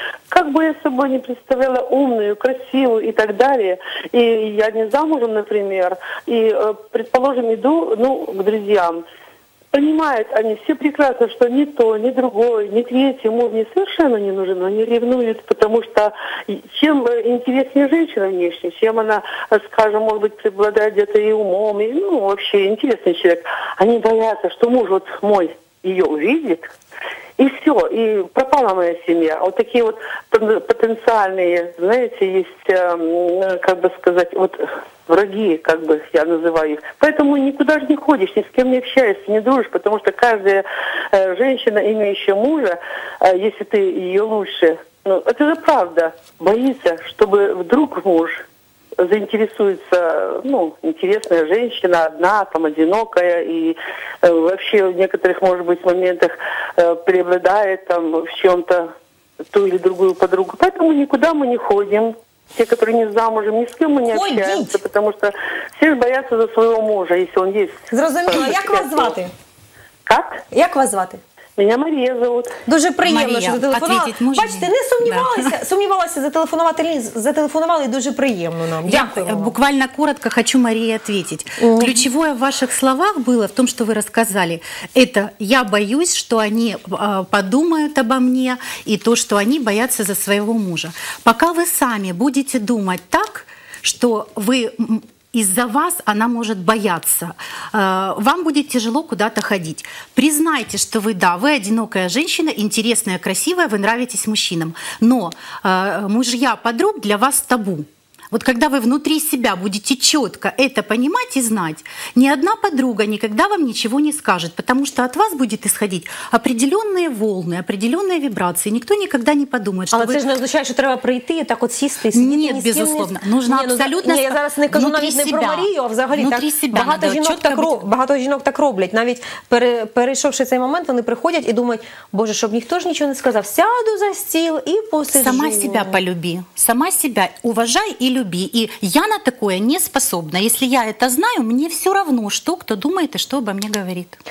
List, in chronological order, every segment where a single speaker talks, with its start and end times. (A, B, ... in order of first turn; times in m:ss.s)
0:00.3-0:09.0 A
0:09.7-0:26.7 A
0:27.4-0:48.4 A
0:49.0-0:58.9 A
0:59.5-1:09.1 A
1:04.1-1:04.8 B
1:07.9-1:09.3 B
1:10.1-1:10.4 A
1:10.5-1:11.2 B
1:11.6-1:12.6 A
1:12.7-1:19.6 B
1:13.0-1:15.5 C
1:18.9-2:00.2 C
1:21.6-1:22.0 B
1:59.9-2:16.0 B
2:02.1-2:07.8 C
2:15.1-2:24.2 C